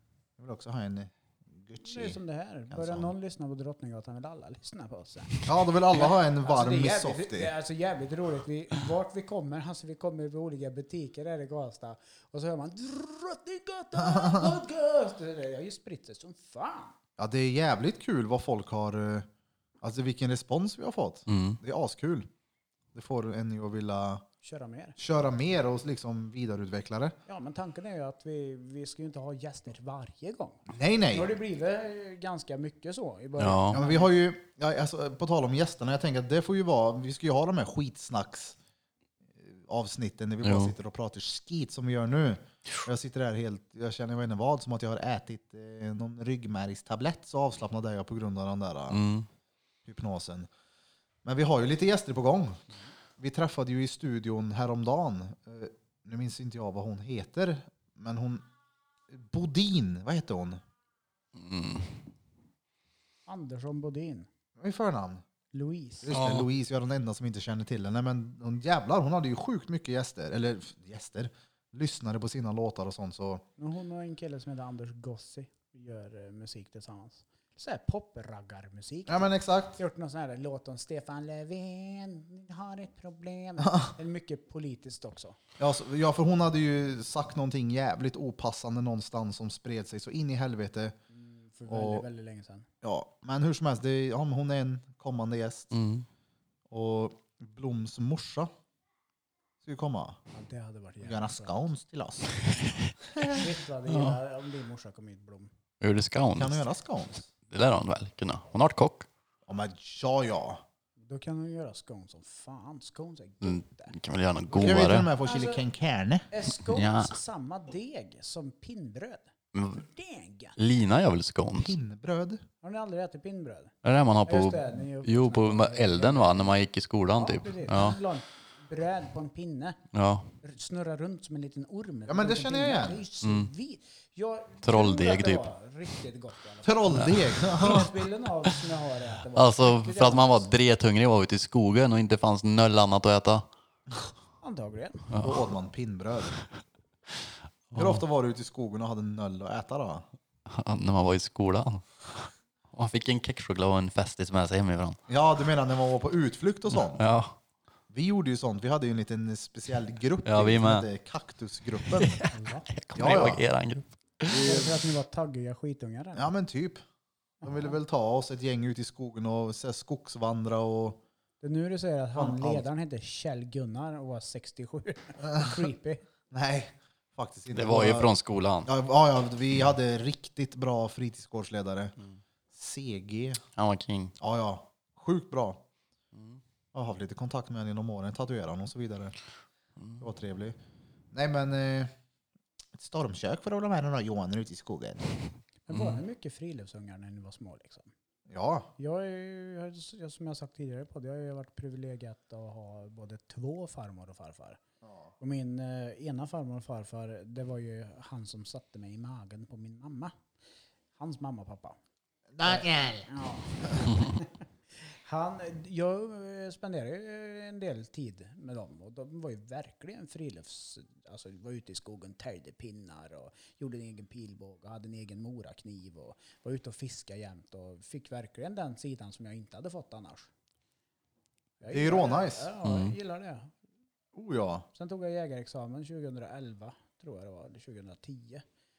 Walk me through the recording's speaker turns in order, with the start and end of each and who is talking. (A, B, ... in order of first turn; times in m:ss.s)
0:00.4-0:02.2 A
0:01.8-0:16.9 B
0:02.7-0:03.1 A
0:05.4-0:07.5 A
0:14.0-0:14.5 A
0:17.2-0:19.3 A
0:19.8-0:22.3 A
0:21.3-0:21.6 C
0:22.9-0:24.2 A
0:24.4-0:25.0 B
0:25.0-0:27.2 A
0:27.3-0:34.1 B
0:30.7-0:31.3 A
0:33.4-0:33.8 C
0:33.7-0:38.6 A
0:39.4-0:49.0 A
0:40.4-0:40.7 C
0:48.9-0:49.3 C
0:49.8-0:50.5 A
0:51.2-0:52.6 A
0:53.2-0:58.4 A
0:59.1-1:00.6 A
1:01.3-1:01.9 C
1:03.3-1:04.3 B
1:04.6-1:05.2 A
1:05.5-1:06.1 B
1:06.0-1:13.4 A
1:06.1-1:06.5 C
1:13.6-1:25.4 B
1:19.1-1:19.8 A
1:23.6-1:23.9 A
1:25.6-1:31.0 A
1:31.1-1:32.7 B
1:31.7-1:32.0 A
1:32.8-1:35.7 A
1:35.7-1:36.0 C
1:36.7-1:38.5 A
1:39.6-1:40.2 A
1:40.3-1:41.6 B
1:41.0-1:42.3 A
1:43.2-1:44.1 C
1:43.2-1:45.5 B
1:45.8-1:46.6 C
1:46.4-1:47.3 A
1:47.5-1:49.1 C
1:49.5-1:50.6 A
1:51.0-1:53.9 B
1:53.4-1:55.1 C
1:54.5-1:55.6 B
1:54.6-1:56.3 A
1:56.3-2:00.6 B
1:56.6-1:57.1 C
1:59.5-1:59.8 C
2:00.6-2:01.8 C
2:01.5-2:02.4 A
2:02.6-2:06.6 B
2:03.8-2:08.0 C
2:07.1-2:09.8 B
2:09.9-2:10.3 C
2:10.4-2:20.5 B
2:12.1-2:13.0 A
2:13.2-2:13.5 C
2:14.6-2:15.4 C
2:16.6-2:17.9 A
2:16.9-2:17.9 C
2:19.4-2:23.5 C
2:24.4-2:25.1 B
2:25.1-2:25.4 C
2:25.1-2:26.3 A
2:27.7-2:28.0 C
2:27.7-2:30.0 A
2:30.5-2:35.0 C
2:35.1-2:37.0 A
2:36.7-2:37.4 C
2:37.9-2:42.2 A
2:40.2-2:40.8 C
2:41.9-2:44.4 C
2:42.3-2:43.1 B
2:43.0-2:43.4 A
2:44.3-2:44.8 A
2:44.3-2:46.3 B
2:46.1-2:46.8 A
2:47.4-2:51.0 A
2:51.4-2:56.0 B
2:52.1-2:52.6 A
2:55.2-2:55.7 A
2:56.3-2:58.1 A
2:57.5-2:58.7 C
2:58.6-3:01.9 A
3:02.5-3:03.4 A
3:03.6-3:04.1 C
3:04.2-3:05.6 A
3:06.1-3:06.4 C
3:06.7-3:09.1 A
3:10.0-3:10.6 A
3:11.1-3:11.9 A
3:12.8-3:15.1 A
3:15.6-3:17.9 B
3:15.7-3:16.0 C
3:18.3-3:18.7 A
3:18.8-3:24.6 B
3:24.8-3:25.1 A
3:25.2-3:30.1 B
3:31.0-3:31.8 B
3:32.3-3:33.1 A
3:32.4-3:50.3 B
3:51.6-3:53.5 B
3:51.7-3:52.5 A
3:52.6-3:52.9 C
3:54.1-3:54.6 A
3:54.7-3:58.4 B